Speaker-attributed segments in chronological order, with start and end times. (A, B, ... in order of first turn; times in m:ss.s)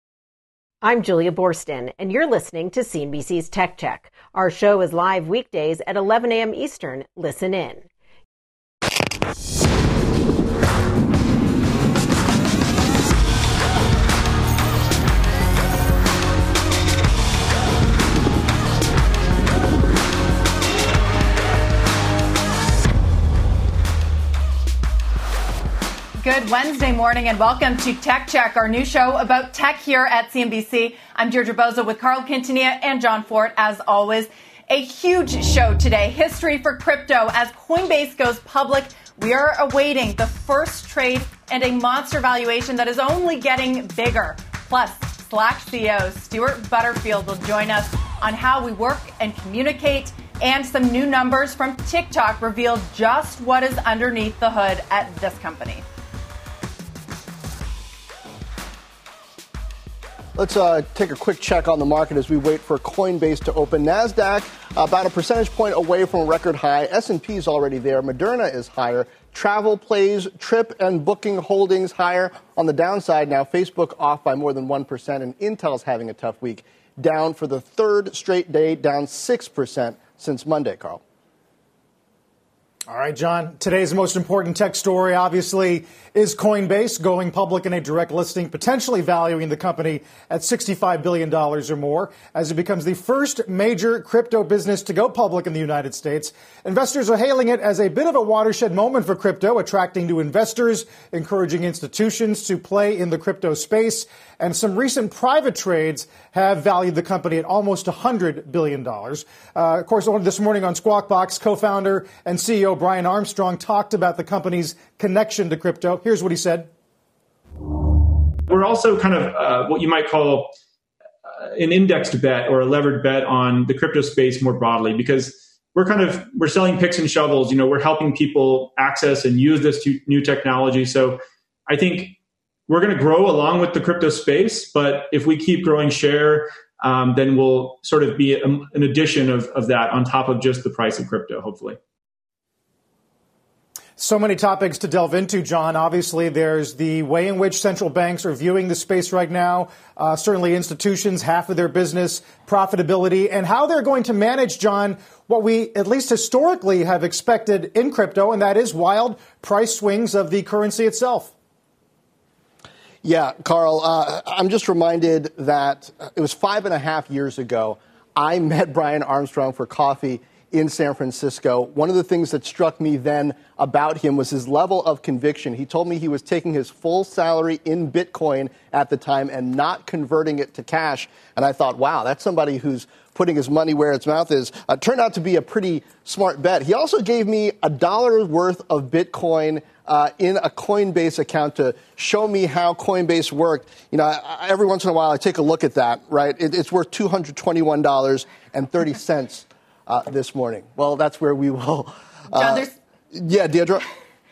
0:00.8-0:07.9 A
0:26.2-0:55.8 B
1:00.4-1:21.0 C
1:22.9-1:56.7 D
1:58.5-2:00.5 E
2:01.4-2:12.2 E
2:12.7-2:21.8 E
2:24.0-2:41.3 D
2:43.0-3:23.8 C
3:22.3-3:22.8 B